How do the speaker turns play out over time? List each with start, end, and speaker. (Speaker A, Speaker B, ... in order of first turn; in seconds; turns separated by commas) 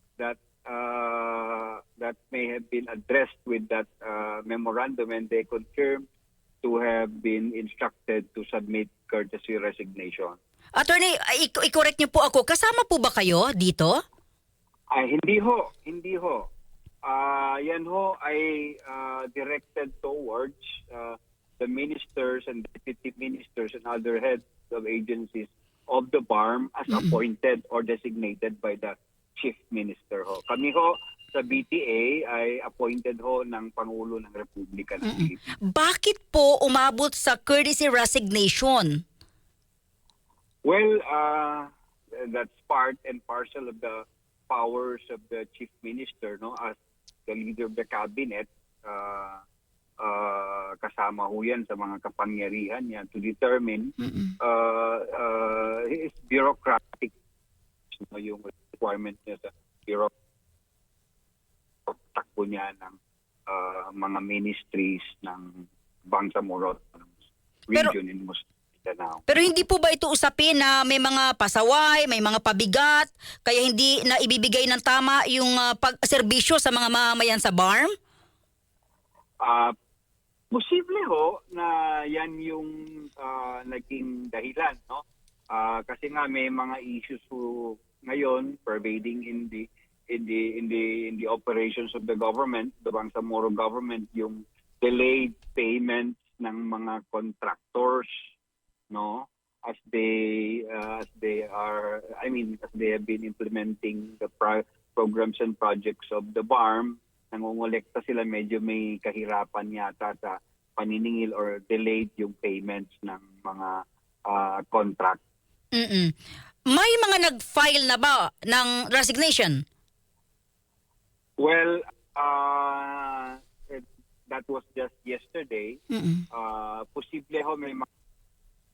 Speaker A: 0.2-6.0, Speaker A: 6.6-10.4, Speaker B: 10.8-14.0, Speaker A: 14.9-16.5, Speaker A: 17.0-35.6, Speaker B: 26.9-27.2, Speaker B: 35.0-39.0, Speaker A: 40.6-49.4, Speaker A: 50.0-57.1, Speaker B: 54.0-54.3, Speaker A: 57.9-60.1, Speaker A: 61.9-67.1, Speaker A: 67.7-69.4, Speaker B: 69.3-77.9, Speaker A: 79.4-79.7, Speaker A: 80.5-98.1, Speaker A: 98.9-115.2, Speaker B: 115.7-116.1, Speaker B: 116.7-119.6, Speaker A: 121.4-125.8, Speaker B: 125.9-126.2, Speaker A: 126.3-127.9